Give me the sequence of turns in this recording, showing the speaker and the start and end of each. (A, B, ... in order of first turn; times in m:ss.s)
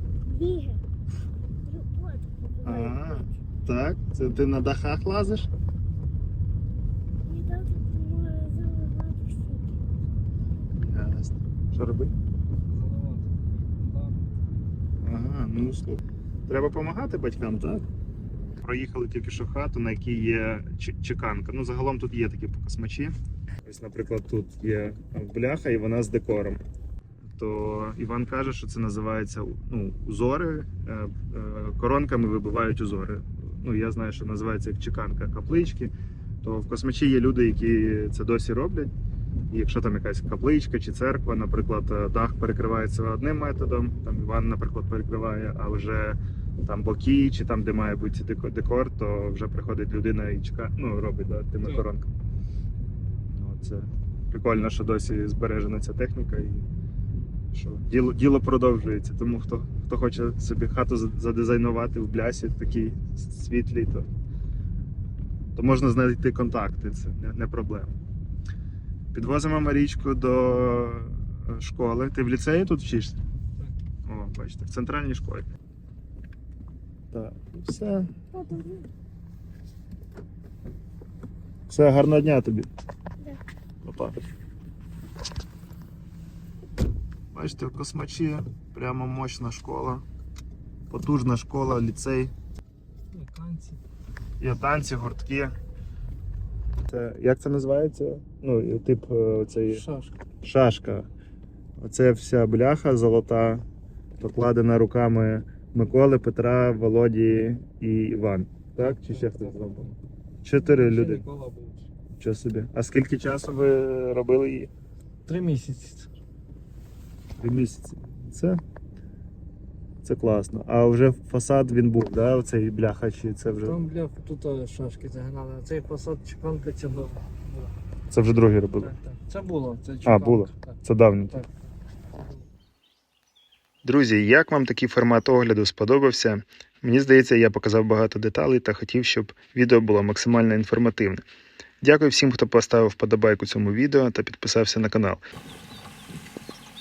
0:00.2-0:00.8 A
0:01.6-0:03.3 A
0:02.6-0:05.5 B
0:07.2-0:09.8 A
0:10.8-0:12.1 B
0:12.6-0:14.3 C
0:15.0-0:17.8 B
0:18.6-0:26.6 B
0:27.3-0:35.9 B
0:36.4-0:38.9 B
0:39.5-0:52.1 B
0:53.3-0:56.7 B
0:57.5-1:04.1 B
1:05.5-1:07.9 B
1:09.1-1:13.2 B
1:14.0-1:15.4 B
1:17.1-1:18.1 B
1:18.3-1:18.9 A
1:21.7-1:22.7 B
1:23.8-1:24.2 B
1:27.3-1:30.0 B
1:30.9-1:32.3 B
1:33.1-1:33.8 C
1:34.4-1:35.6 B
1:36.8-1:39.8 B
1:39.7-1:40.1 C
1:40.4-1:41.1 B
1:41.8-1:43.6 B
1:44.2-1:51.2 B
1:48.9-1:49.9 C
1:50.6-1:51.8 C
1:52.2-1:54.7 B
1:55.2-1:56.1 C
1:57.4-1:58.6 B
2:00.0-2:03.8 B
2:03.4-2:07.7 C
2:08.1-2:08.9 B
2:08.8-2:11.5 C
2:10.0-2:11.4 B
2:12.1-2:12.4 C
2:13.8-2:21.2 B
2:21.8-2:25.2 B